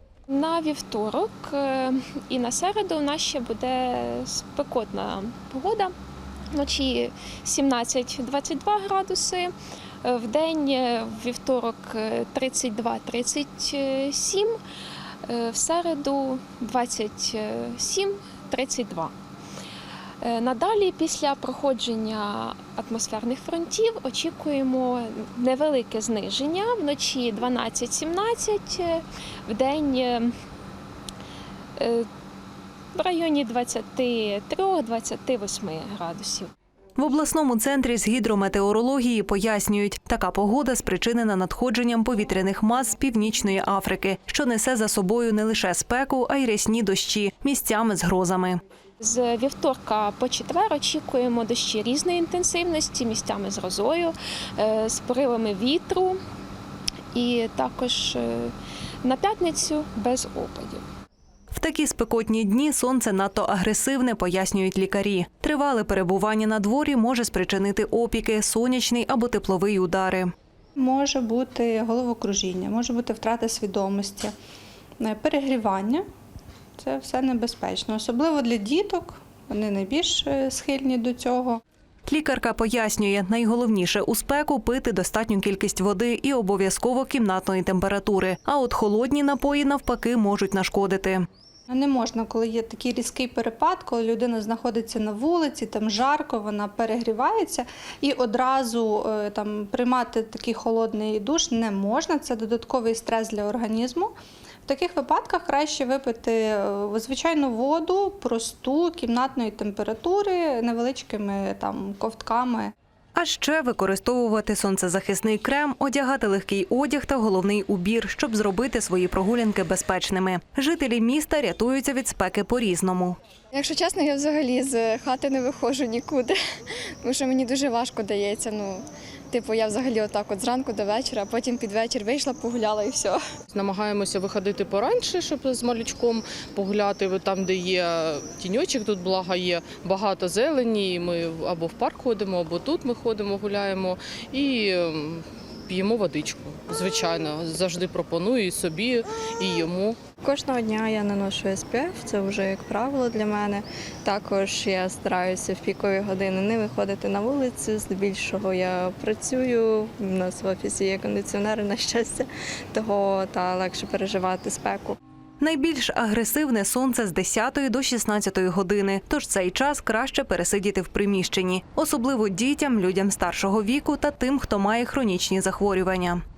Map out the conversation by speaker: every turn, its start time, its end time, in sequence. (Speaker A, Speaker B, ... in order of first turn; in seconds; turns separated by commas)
Speaker A: 0.3-5.9, Speaker A: 6.5-9.5, Speaker A: 10.0-14.5, Speaker A: 15.2-19.1, Speaker A: 20.2-30.3, Speaker A: 31.8-32.1, Speaker A: 33.0-36.5, Speaker B: 37.0-48.6, Speaker A: 49.0-56.2, Speaker A: 57.1-58.5, Speaker A: 59.0-60.8, Speaker B: 61.5-70.3, Speaker C: 70.8-74.3, Speaker C: 75.0-76.0, Speaker C: 76.8-81.6, Speaker B: 82.1-91.2, Speaker C: 91.7-104.1, Speaker C: 104.7-112.7, Speaker B: 113.2-123.2, Speaker D: 123.5-126.4, Speaker D: 127.0-133.2, Speaker E: 133.5-150.0, Speaker F: 150.2-165.0, Speaker B: 165.4-176.2